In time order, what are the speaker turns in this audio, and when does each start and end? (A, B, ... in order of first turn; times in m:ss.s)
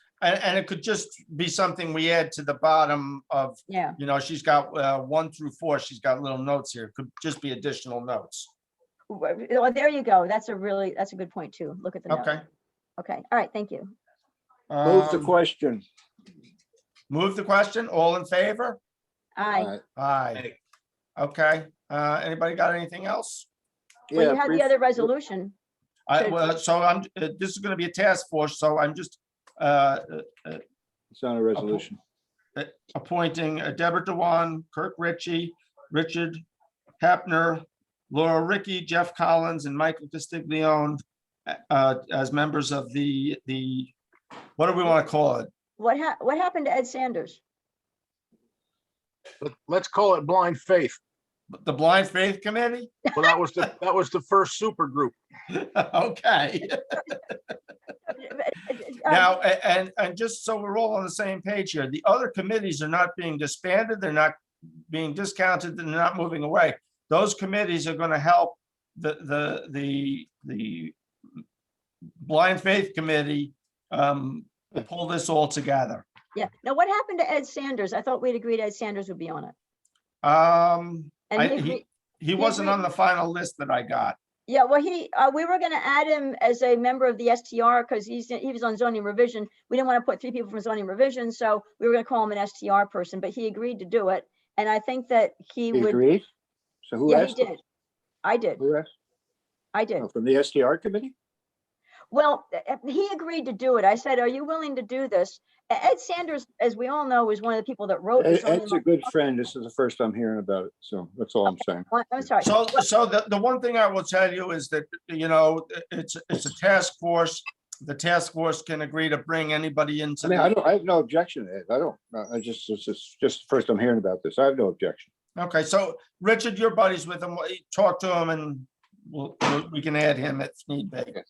0:00.2-0:08.5 A
0:03.7-0:04.0 B
0:09.1-0:12.4 B
0:12.1-0:12.4 A
0:13.0-0:13.9 B
0:14.7-0:15.3 A
0:14.8-0:15.8 C
0:17.1-0:18.8 A
0:19.4-0:19.7 B
0:20.0-0:20.5 A
0:21.2-0:23.5 A
0:24.1-0:25.1 C
0:24.1-0:25.5 B
0:26.1-0:30.6 A
0:26.2-0:26.5 B
0:31.1-0:32.0 C
0:31.6-0:31.8 A
0:32.6-0:36.4 A
0:37.0-0:43.9 A
0:44.6-0:45.5 A
0:45.8-0:47.4 B
0:49.4-0:51.0 D
0:51.5-0:53.2 A
0:53.1-0:55.1 D
0:55.5-0:57.2 A
0:58.1-0:59.3 B
0:59.1-1:04.3 A
1:04.9-1:10.9 A
1:12.2-1:16.0 A
1:16.3-1:19.5 B
1:20.2-1:24.2 A
1:21.3-1:21.8 B
1:22.4-1:22.8 B
1:24.5-1:36.0 B
1:35.7-1:36.2 C
1:36.8-1:37.5 C
1:37.0-1:37.6 B
1:38.2-1:38.6 B
1:38.6-1:38.9 C
1:39.7-1:40.1 B
1:40.0-1:41.1 C
1:42.1-1:49.0 B
1:48.2-1:51.9 C
1:51.9-1:52.8 B
1:52.4-2:00.5 A
2:00.2-2:05.1 C
2:05.4-2:11.1 A